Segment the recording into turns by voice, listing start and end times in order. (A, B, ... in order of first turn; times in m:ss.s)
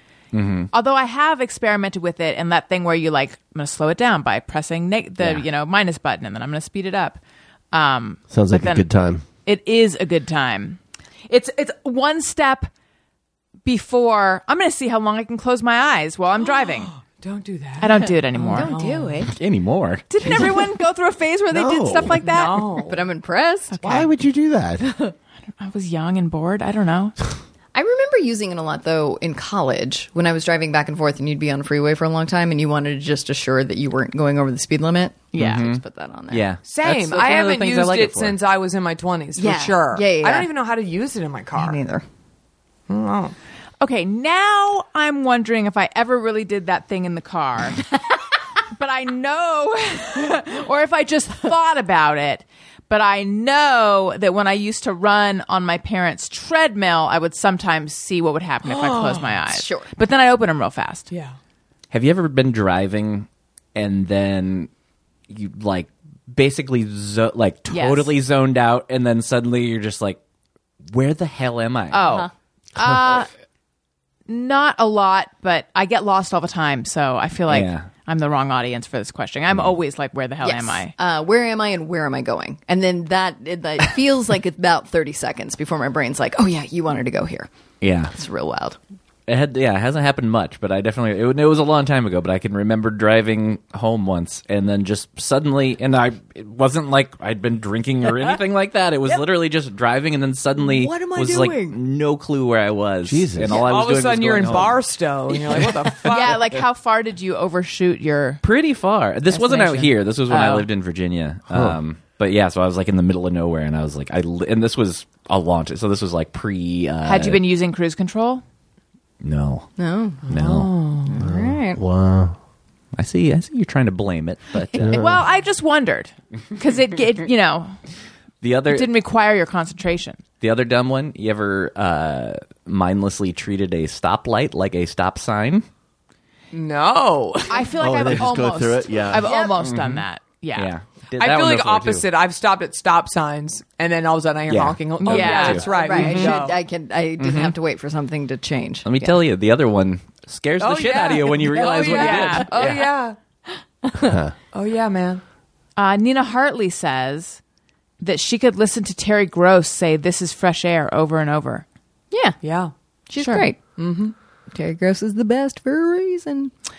0:00.3-0:00.7 A
0:00.7-0:07.2 B
0:07.7-0:08.8 B
0:08.3-0:09.2 C
0:09.4-0:12.7 B
0:13.6-0:16.9 B
0:16.5-0:19.2 D
0:17.8-0:18.7 B
0:18.4-0:19.3 E
0:19.3-0:20.6 A
0:20.1-0:22.7 B
0:21.5-0:22.2 C
0:22.2-0:23.0 D
0:22.8-0:23.8 E
0:23.7-0:24.1 B
0:23.8-0:24.9 C
0:25.6-0:27.2 B
0:27.7-0:36.5 E
0:35.3-0:35.6 B
0:35.3-0:38.4 A
0:36.6-0:41.8 D
0:39.4-0:40.5 E
0:41.5-0:42.0 E
0:42.9-0:43.3 D
0:43.8-0:47.9 B
0:48.8-1:01.1 B
0:58.6-0:59.4 D
0:59.5-0:59.9 E
1:01.1-1:01.4 D
1:01.9-1:04.7 A
1:05.3-1:10.2 A
1:07.7-1:08.1 B
1:10.9-1:12.1 A
1:11.9-1:13.3 B
1:14.3-1:20.9 B
1:17.5-1:17.9 A
1:20.4-1:27.5 E
1:27.8-1:28.1 A
1:28.1-1:28.8 E
1:29.3-1:44.8 A
1:40.7-1:41.7 E
1:43.0-1:43.5 C
1:43.5-1:46.4 D
1:45.4-1:45.7 A
1:46.1-1:48.4 B
1:48.4-1:57.4 A
1:49.3-1:50.7 B
1:51.5-1:51.8 C
1:57.0-1:58.4 B
1:59.2-1:59.7 A
1:59.8-2:00.3 E
2:00.3-2:01.2 D
2:00.3-2:00.7 A
2:01.1-2:01.8 E
2:01.2-2:02.4 C
2:03.0-2:05.0 A
2:04.8-2:05.2 C
2:04.9-2:07.8 B
2:08.4-2:08.9 A
2:08.7-2:10.2 B
2:10.4-2:15.6 A
2:16.5-2:17.7 D
2:17.5-2:20.7 B
2:17.8-2:19.3 C
2:19.2-2:19.6 E
2:19.6-2:20.0 A
2:20.6-2:22.1 A
2:21.2-2:26.6 D
2:24.5-2:26.3 A
2:25.0-2:26.3 B
2:25.6-2:29.2 E
2:27.2-2:27.5 A
2:28.8-2:32.9 A
2:30.6-2:33.2 D
2:31.8-2:32.5 B
2:34.0-2:34.3 C
2:34.5-2:35.2 D
2:35.8-2:37.4 B
2:38.0-2:41.6 B
2:42.1-2:42.4 E
2:42.4-2:42.7 D
2:43.1-2:43.7 E
2:43.2-2:43.5 B
2:43.8-2:44.1 D
2:44.5-2:46.5 E